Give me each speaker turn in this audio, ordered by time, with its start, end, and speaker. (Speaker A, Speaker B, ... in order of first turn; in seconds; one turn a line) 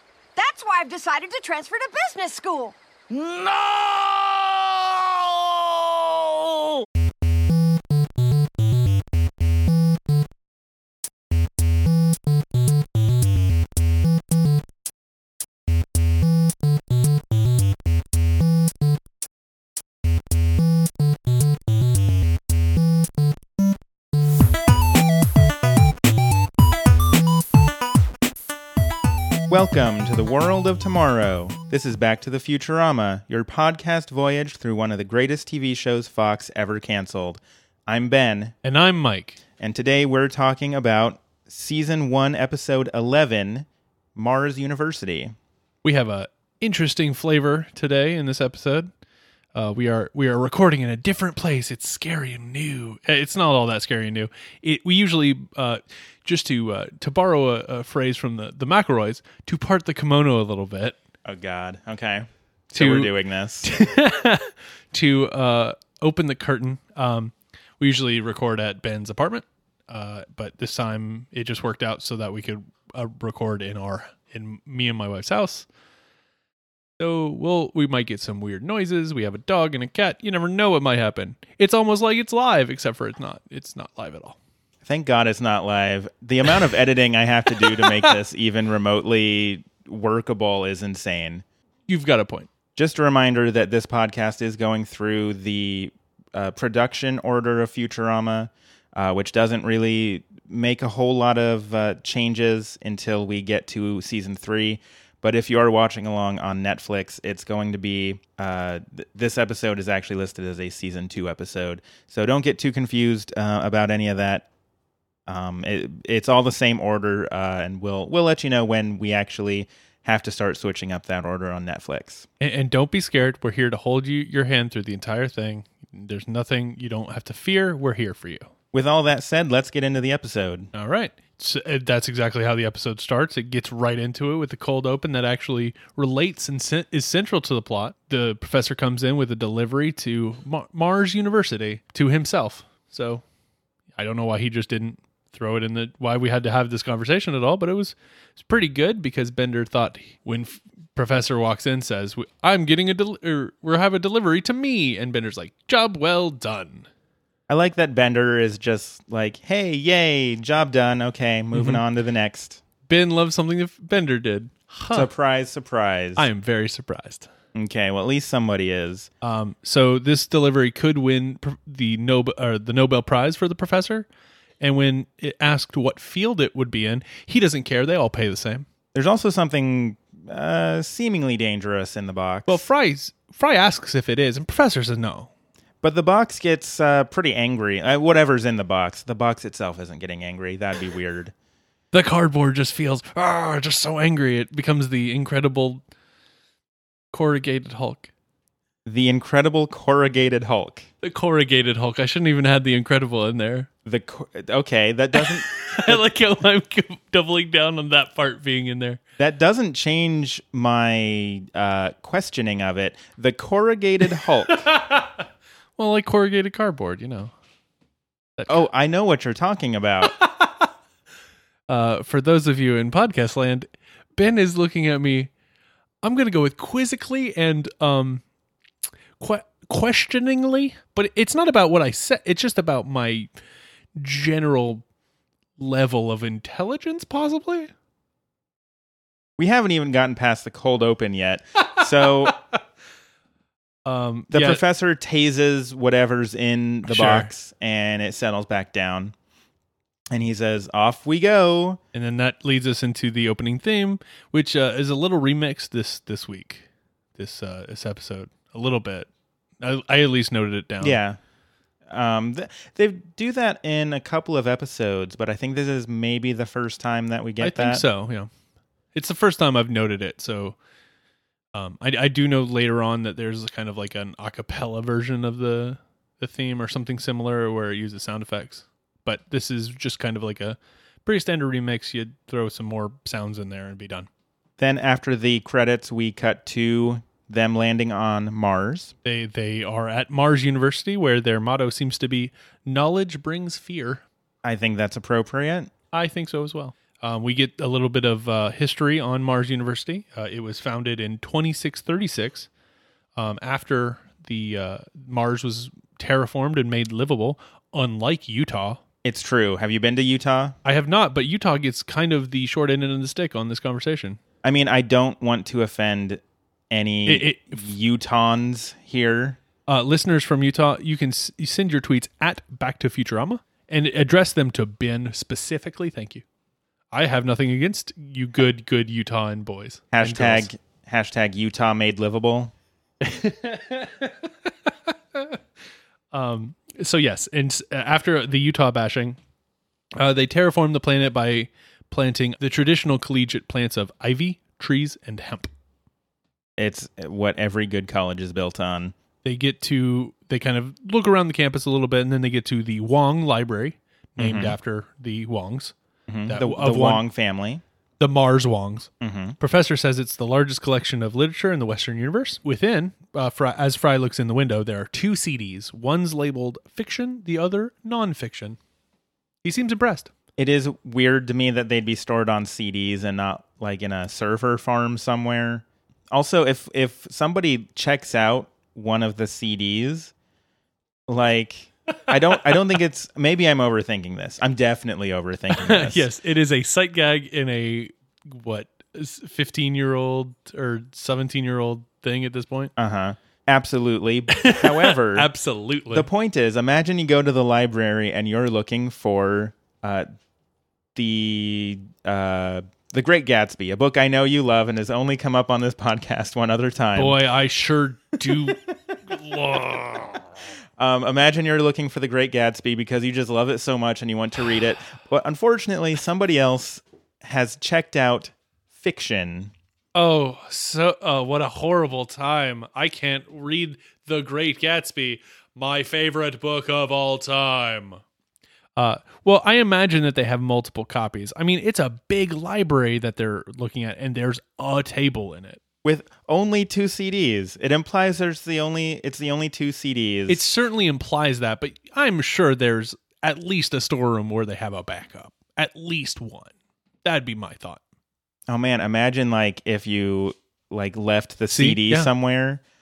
Speaker A: 0.4-6.9
Speaker B: 29.5-38.5
Speaker C: 38.6-39.4
Speaker B: 39.6-45.4
Speaker C: 45.8-48.9
Speaker C: 49.5-61.0
Speaker B: 61.2-63.7
Speaker C: 62.8-63.1
Speaker C: 63.6-75.7
Speaker C: 77.0-84.4
Speaker B: 84.8-91.5
Speaker C: 87.7-88.1
Speaker C: 91.9-92.5
Speaker B: 92.8-114.5
Speaker B: 115.3-122.3
Speaker C: 122.4-128.5
Speaker B: 128.7-130.7
Speaker C: 130.7-143.2
Speaker C: 144.0-156.9
Speaker B: 157.5-162.6
Speaker C: 161.5-161.8
Speaker C: 162.9-165.1
Speaker B: 164.9-166.2
Speaker C: 166.2-167.3
Speaker B: 167.6-169.1
Speaker C: 169.2-174.1
Speaker C: 174.6-178.7
Speaker B: 178.9-182.7
Speaker C: 182.5-185.3
Speaker B: 185.8-191.3
Speaker C: 191.9-195.8
Speaker C: 197.1-198.1
Speaker B: 198.9-200.9
Speaker C: 201.0-203.7
Speaker B: 203.8-206.0
Speaker C: 205.6-209.0
Speaker B: 209.2-214.7
Speaker C: 214.5-215.2
Speaker C: 215.8-217.3
Speaker C: 218.4-218.7
Speaker B: 218.5-220.2
Speaker C: 220.1-220.7
Speaker C: 221.7-225.3
Speaker C: 226.0-228.2
Speaker C: 229.2-233.3
Speaker C: 234.0-234.8
Speaker C: 235.6-237.7
Speaker B: 239.4-242.4
Speaker C: 243.9-244.6
Speaker B: 244.3-249.1
Speaker C: 246.9-247.3
Speaker B: 250.1-251.8
Speaker C: 251.9-259.1
Speaker C: 259.6-261.0
Speaker B: 260.8-261.2
Speaker B: 261.9-267.8
Speaker C: 267.4-268.3
Speaker C: 268.9-270.6
Speaker C: 271.6-284.1
Speaker B: 284.6-288.9
Speaker C: 289.0-294.1
Speaker B: 294.4-295.7
Speaker C: 295.9-302.5
Speaker C: 303.2-308.8
Speaker B: 309.0-310.6
Speaker C: 310.6-314.2
Speaker B: 314.4-319.4
Speaker C: 317.1-317.7
Speaker C: 319.7-326.2
Speaker C: 326.9-330.5
Speaker B: 329.9-332.5
Speaker C: 333.0-335.4
Speaker C: 336.1-339.2
Speaker C: 340.0-345.5
Speaker B: 346.6-348.9
Speaker C: 349.2-355.8
Speaker B: 354.2-354.6
Speaker B: 356.1-357.6
Speaker C: 356.3-357.0
Speaker C: 358.0-368.6
Speaker B: 359.0-359.4
Speaker C: 369.4-370.1
Speaker B: 370.4-380.1
Speaker B: 381.1-386.1
Speaker C: 385.5-392.7
Speaker B: 392.8-395.3
Speaker C: 394.3-396.1
Speaker B: 395.9-400.1
Speaker B: 400.9-407.2
Speaker C: 406.9-410.2
Speaker B: 408.3-408.6
Speaker B: 409.3-409.9
Speaker B: 410.8-419.5
Speaker C: 419.9-428.0
Speaker C: 428.8-435.6
Speaker B: 435.8-440.5
Speaker C: 440.3-447.8
Speaker B: 448.5-452.6
Speaker C: 451.5-452.1